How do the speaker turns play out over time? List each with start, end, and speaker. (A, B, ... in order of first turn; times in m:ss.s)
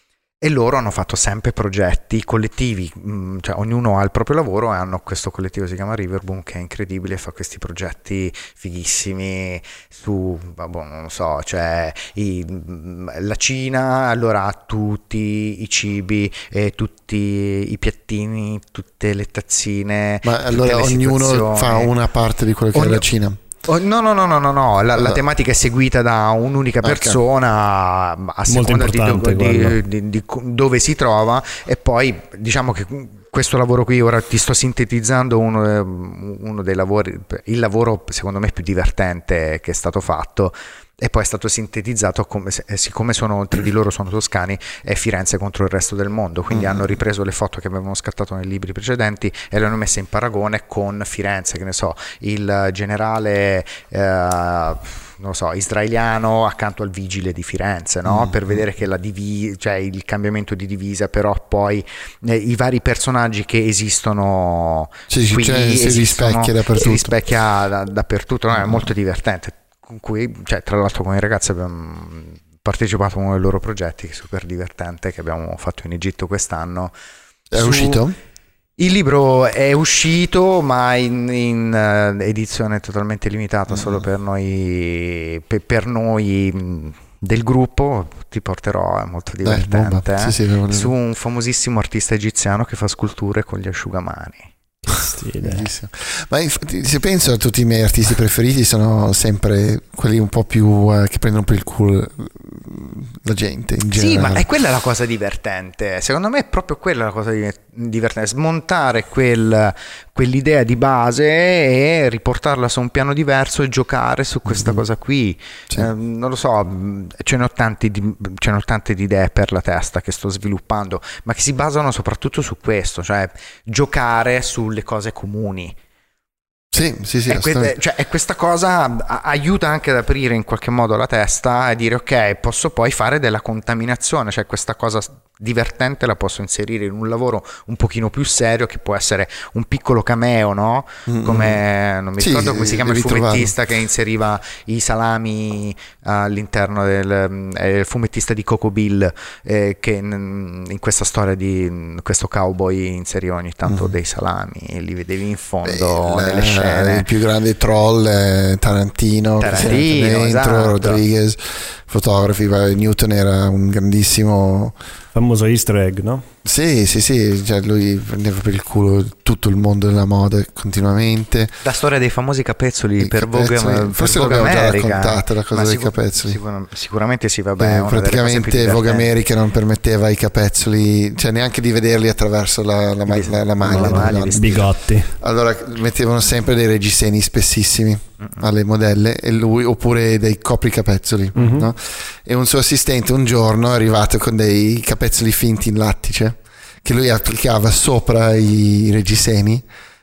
0:00.4-0:21.9 A
0:20.2-0:23.4 B
0:22.7-0:23.1 A
0:23.6-1:16.9 A
0:26.8-0:27.2 B
0:28.5-0:29.8 C
0:46.5-0:46.8 B
0:58.1-0:58.4 B
1:05.1-1:07.2 B
1:17.5-1:18.1 B
1:17.5-1:18.0 A
1:18.8-1:35.0 A
1:29.4-1:30.9 B
1:34.9-1:35.7 C
1:35.4-1:44.4 B
1:43.9-2:05.8 A
2:06.7-2:07.7 B
2:07.3-2:37.1 A
2:21.1-2:21.6 B
2:22.2-2:23.5 B
2:33.6-2:33.9 B
2:35.6-2:44.8 B
2:39.4-2:41.0 A
2:45.1-2:46.2 C
2:46.4-2:51.6 B
2:51.6-2:59.1 A
2:53.0-2:56.4 B
2:57.6-3:19.6 B
3:03.1-3:04.7 A
3:03.7-3:05.1 C
3:11.4-3:11.7 C